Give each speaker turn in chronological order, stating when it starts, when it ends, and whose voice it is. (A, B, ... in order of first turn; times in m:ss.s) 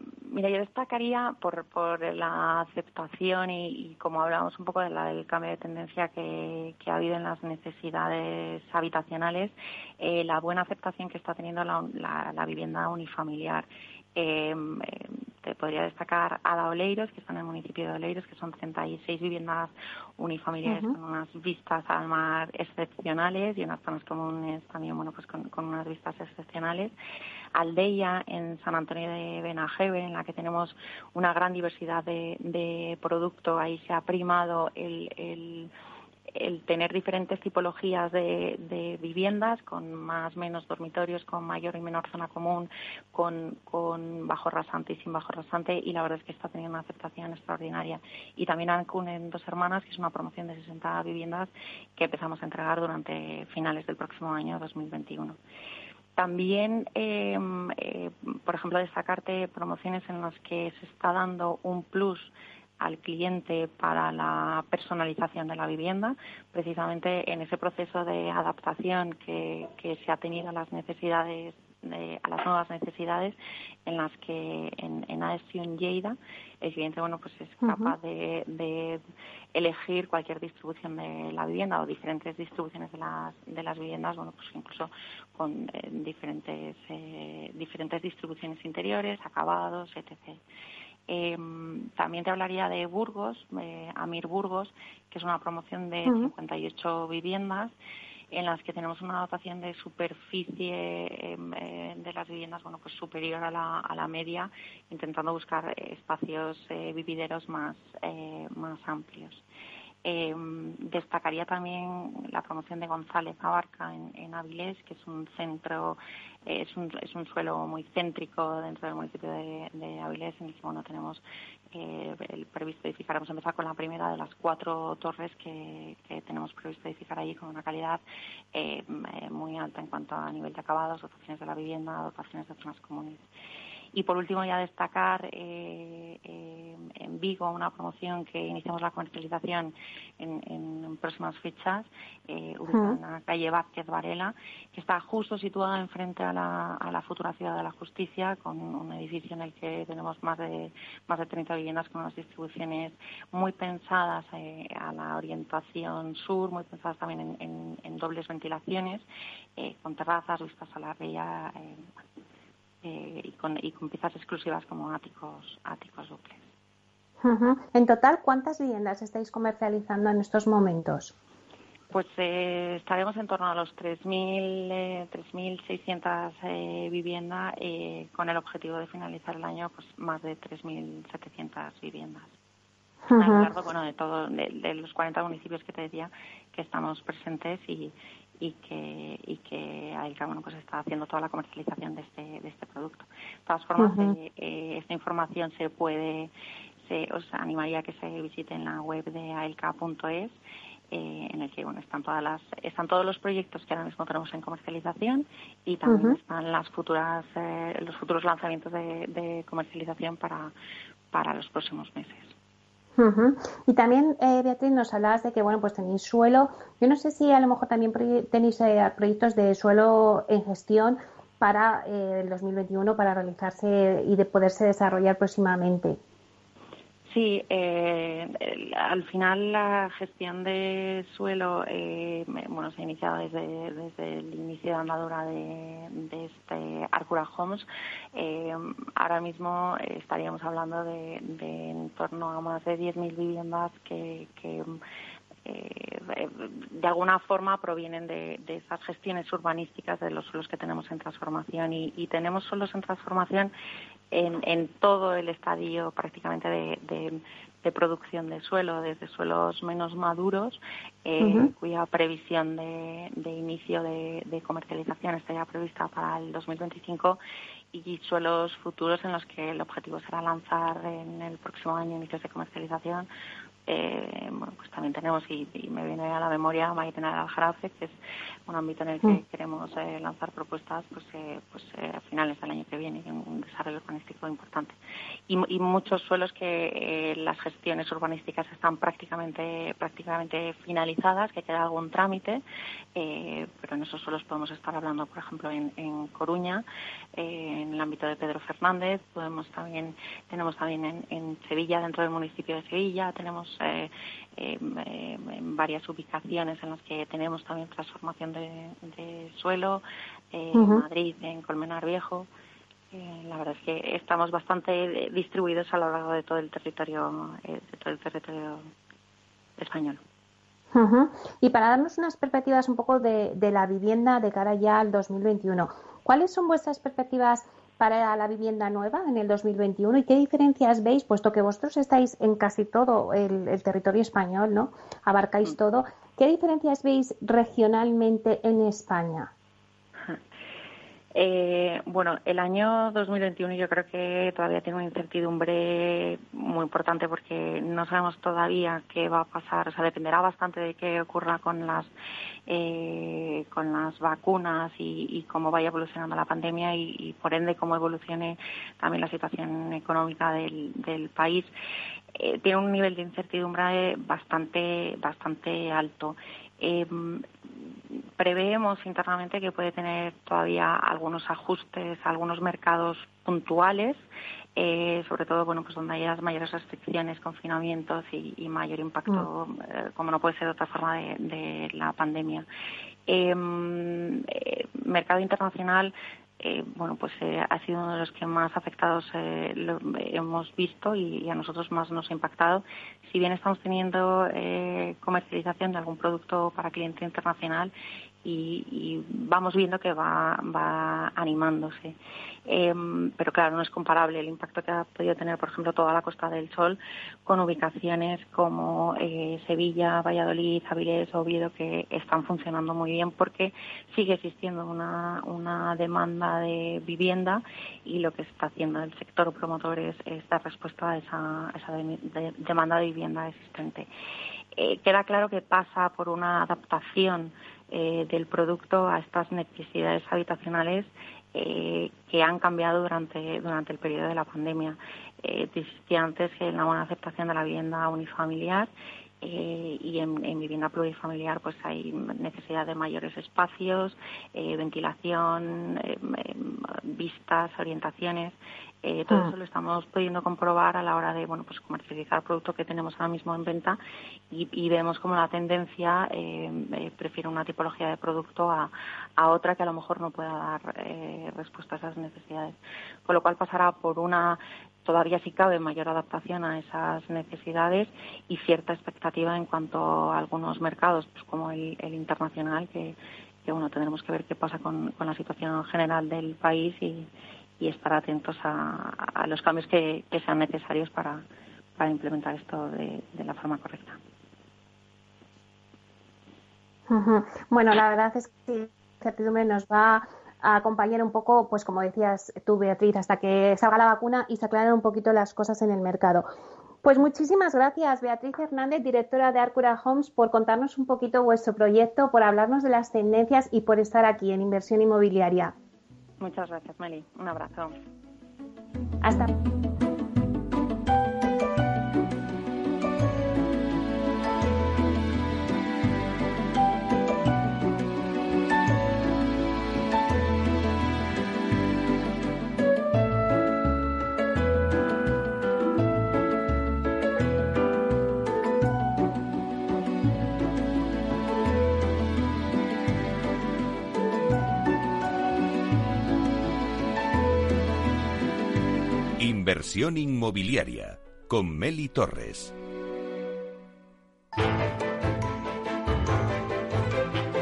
0:00.3-0:26.9 A
0:20.6-0:20.9 B
0:27.5-0:35.7 A
0:36.3-0:55.4 A
0:56.2-1:19.0 A
1:17.6-1:17.9 B
1:19.5-1:30.4 A
1:31.1-1:37.7 A
1:38.3-1:49.4 A
1:50.0-2:08.0 A
2:08.5-2:13.2 A
2:13.9-2:39.0 A
2:22.7-2:23.0 B
2:39.6-2:41.9 A
2:42.8-2:46.5 A
2:47.2-2:51.1 B
2:51.9-3:02.3 A
3:03.1-3:03.5 B
3:03.2-3:16.3 A
3:13.8-3:14.2 B
3:16.8-3:20.3 A
3:20.9-3:30.5 A
3:25.9-3:26.2 B
3:31.1-3:32.3 A
3:33.0-3:46.0 B
3:47.1-4:04.6 A
4:05.4-4:13.5 A
4:14.1-4:27.2 A
4:21.2-4:21.5 B
4:27.7-4:33.1 A
4:33.6-4:37.9 A
4:38.5-4:44.8 A
4:45.3-4:52.4 A
4:53.0-4:56.6 A
4:57.2-5:12.3 A
5:10.5-5:10.8 B
5:12.9-5:18.7 A
5:19.6-5:20.0 A
5:20.7-5:39.3 B
5:41.1-5:51.9 A
5:52.5-6:01.5 A
6:02.1-6:14.0 A
6:14.6-6:22.5 A
6:23.1-6:37.7 A
6:38.2-7:03.9 A
7:04.5-7:18.7 A
7:19.2-7:33.8 A
7:34.3-7:42.5 A
7:43.0-7:57.1 A
7:57.6-8:01.2 A
8:01.8-8:04.0 A
8:06.9-8:16.3 B
8:16.8-8:25.5 B
8:26.2-8:27.8 A
8:29.0-8:29.3 B
8:59.2-9:02.5 C